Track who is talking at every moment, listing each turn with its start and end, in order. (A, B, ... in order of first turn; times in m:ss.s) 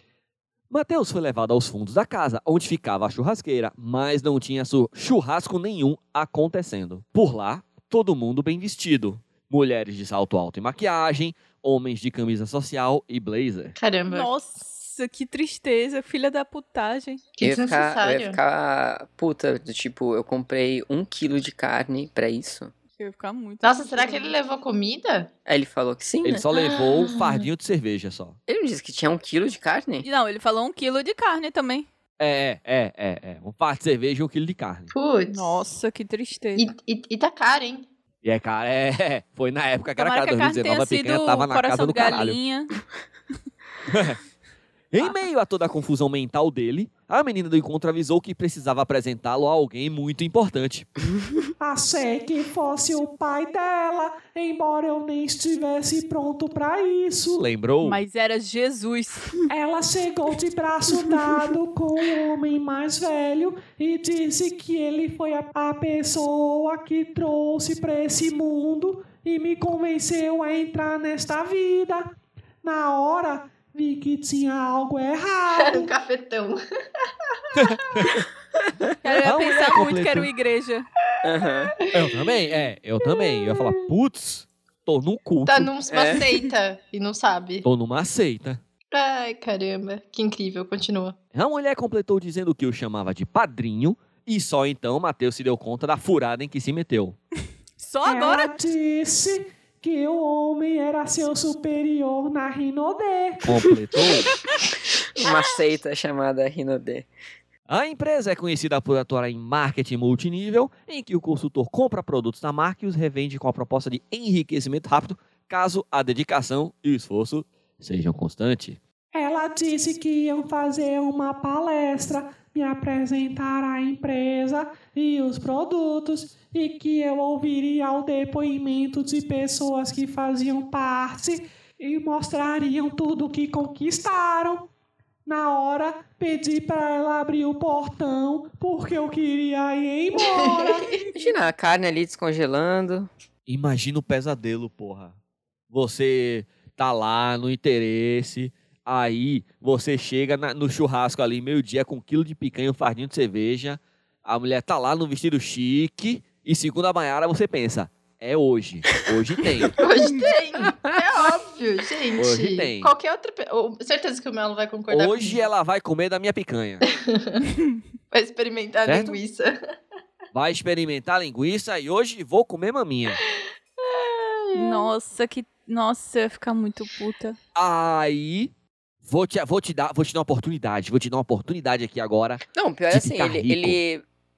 0:00.7-0:13.8 A
0:13.8-0:14.3 B
0:14.1-0:17.2 C
0:17.4-0:18.4 B
0:17.4-0:22.7 D
0:23.0-0:24.3 C
0:23.6-0:25.3 B
0:25.4-0:26.4 D
0:26.2-0:28.4 A
0:26.5-0:27.5 B
0:28.5-0:30.1 D
0:30.0-0:31.9 C
0:32.2-0:34.9 A
0:34.9-0:35.6 B
0:35.3-0:36.6 C
0:36.6-0:37.9 B
0:38.2-0:42.4 A
0:40.0-0:42.8 C
0:43.9-0:44.2 A
0:44.9-0:50.9 A
0:51.6-0:57.4 E
0:57.4-0:58.0 A
0:57.8-0:59.5 C
0:59.5-1:15.9 E
1:15.6-1:16.6 B
1:17.5-1:18.2 B
1:17.6-1:18.2 A
1:19.0-1:20.9 C
1:19.2-1:20.3 A
1:21.2-1:21.7 D
1:21.8-1:22.3 B
1:21.9-1:25.7 A
1:23.0-1:23.7 B
1:25.4-1:27.6 B
1:25.9-1:26.2 D
1:27.6-1:28.6 A
1:28.9-1:31.2 B
1:31.3-1:37.2 A
1:37.8-1:38.5 C
1:38.0-1:43.6 E
1:43.4-1:44.3 A
1:45.1-1:47.1 D
1:47.7-1:58.8 A
1:59.1-2:14.7 E
2:15.3-2:21.0 E
2:20.2-2:21.0 B
2:21.1-2:23.1 D
2:23.5-2:25.1 A
2:25.7-2:39.8 A
2:39.8-2:45.4 B
2:42.2-2:42.9 A
2:44.9-2:46.8 A
2:46.9-2:47.5 B
2:48.1-2:49.6 B
2:48.8-2:49.2 A
2:50.3-2:53.2 A
2:53.8-2:54.9 B
2:54.5-2:57.4 C
2:57.6-2:58.5 A
2:59.0-3:03.8 A
3:02.5-3:04.0 D